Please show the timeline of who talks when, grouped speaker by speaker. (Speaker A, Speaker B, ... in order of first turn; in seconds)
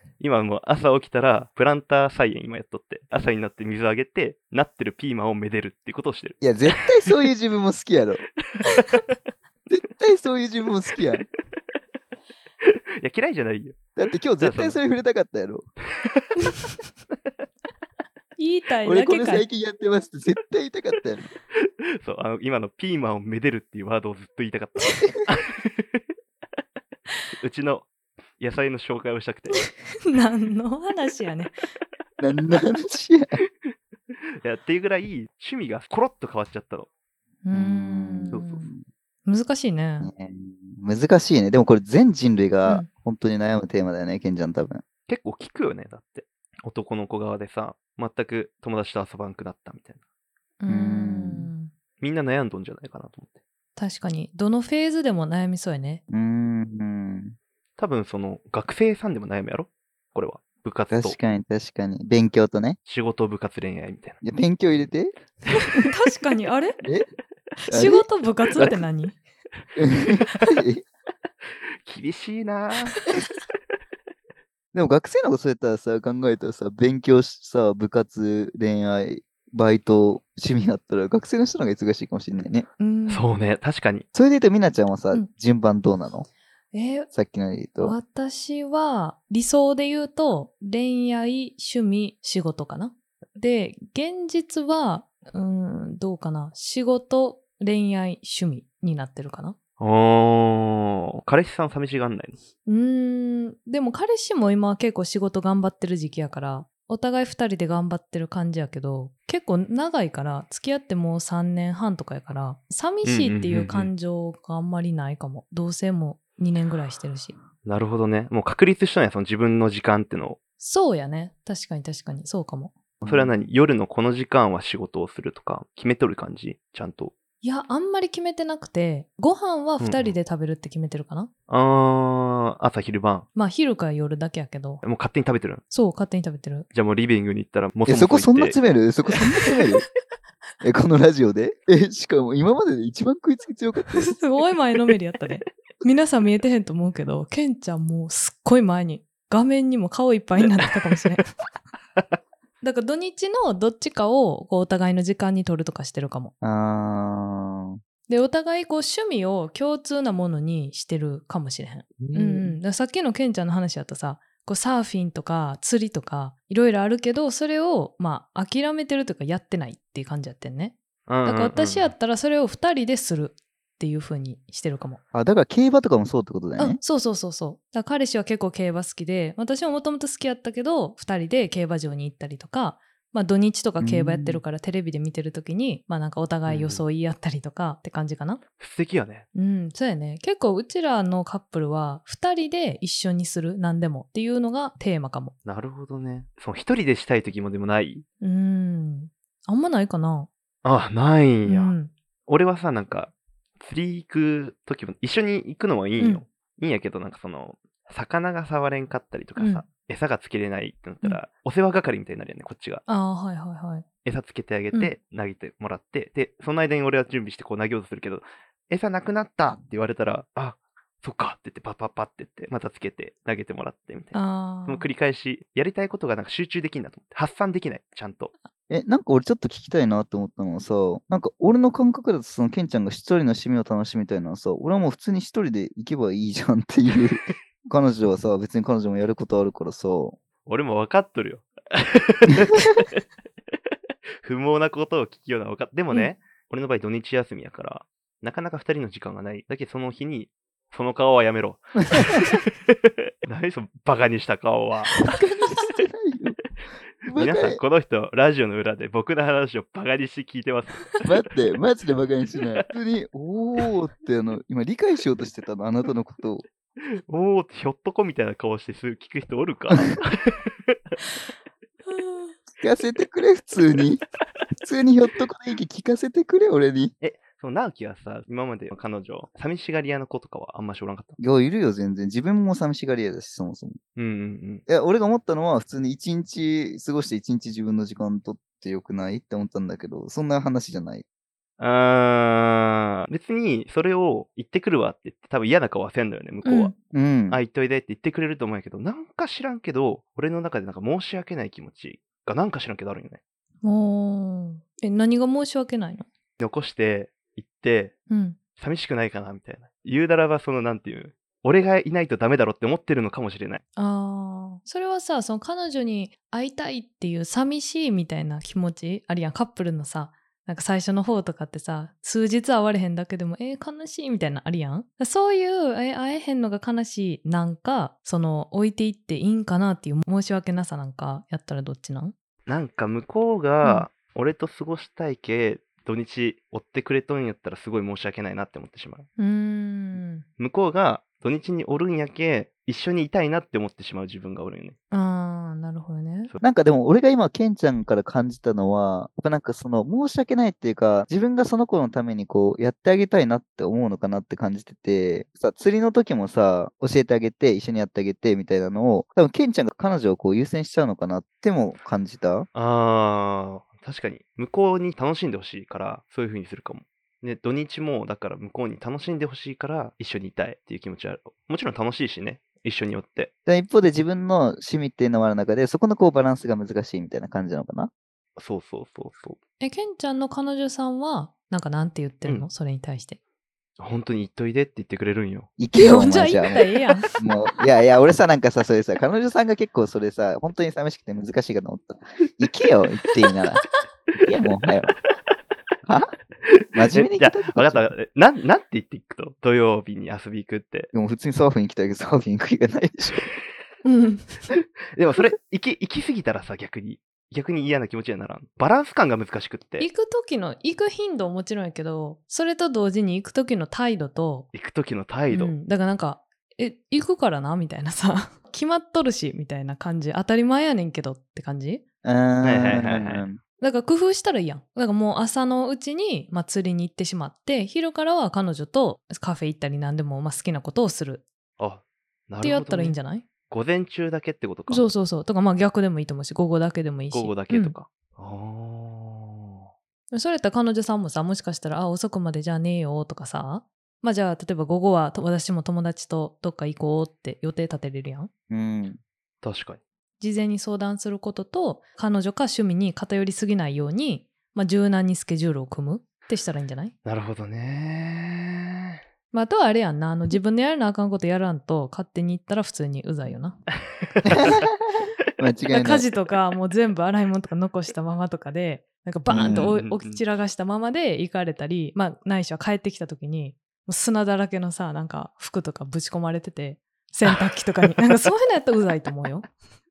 Speaker A: 0.2-7.1, 12.6-13.8, 14.4-14.8, 22.0-26.0, 27.4-29.7, 34.4-36.9, 38.3-38.6, 45.1-50.0, 52.0-53.4, 57.8-61.2, 62.9-64.2, 71.8-73.0, 83.1-84.0, 99.8-102.4, 113.0-113.9, 117.7-120.4, 123.1-127.1, 129.8-130.1, 131.5-133.3, 134.8-135.6, 136.7-138.6, 162.0-162.6, 171.1-171.9, 186.5-186.8, 188.6-189.3, 195.5-198.1, 200.6-201.8, 202.3-212.8, 214.1-228.3, 240.5-243.0, 244.2-255.0, 257.1-261.1, 267.1-270.8, 277.0-281.2, 284.0-284.6, 291.6-296.7, 297.3-303.2, 306.4-307.9, 308.6-313.6, 332.5-339.1, 340.4-344.8, 362.6-373.3, 378.4-379.4, 383.8-385.5, 396.5-400.9, 404.9-409.9, 414.5-415.6, 422.4-423.2, 431.6-432.9, 433.5-434.8, 437.1-439.6, 449.4-449.8, 457.1-458.9, 464.2-464.7, 469.4-470.2, 477.3-477.9
Speaker B: 6.4-8.3, 9.7-11.3, 14.0-15.7, 18.9-21.3, 32.2-33.4, 37.5-38.9, 40.0-44.8, 50.7-51.5, 56.1-57.4, 60.9-62.8, 64.2-65.2, 67.7-68.8, 69.8-70.8, 74.7-82.7, 84.1-86.3, 87.1-88.0, 123.0-123.4, 137.9-139.9, 140.6-144.2, 156.4-157.8, 175.1-176.8, 183.8-184.4, 228.7-240.2, 255.0-256.4, 257.1-257.6, 261.0-266.5, 272.6-274.0, 274.6-276.9, 281.2-283.8, 284.7-291.0, 296.9-297.4, 346.4-362.5, 373.5-377.9, 385.6-386.7, 387.2-393.6, 394.2-394.9, 395.9-396.1, 396.8-397.9, 400.9-403.3, 422.0-423.4, 448.5-449.0, 464.3-466.1, 469.3-469.7
Speaker C: 18.4-19.5, 29.6-31.5, 37.5-38.7, 39.3-40.1, 50.6-51.7, 53.8-56.0, 65.7-66.8, 67.7-69.2, 82.8-83.3, 86.7-87.1, 87.8-99.6, 102.7-117.3, 120.6-122.7, 127.4-131.3, 133.3-134.8, 135.7-136.7, 144.0-151.3, 152.6-156.3, 158.1-175.0, 176.6-188.4, 189.3-195.3, 198.2-200.3, 201.5-201.9, 209.4-209.6, 212.9-213.8, 224.1-224.9, 271.9-272.4, 296.4-296.8, 303.6-306.1, 308.1-308.4, 313.8-332.1, 339.2-340.2, 344.9-346.3, 379.6-383.2, 385.8-387.2, 403.8-404.5, 409.8-414.5, 415.3-421.8, 423.6-431.2, 432.4-433.2, 434.7-437.8, 440.1-448.3, 450.2-456.9, 459.3-463.6, 465.7-479.5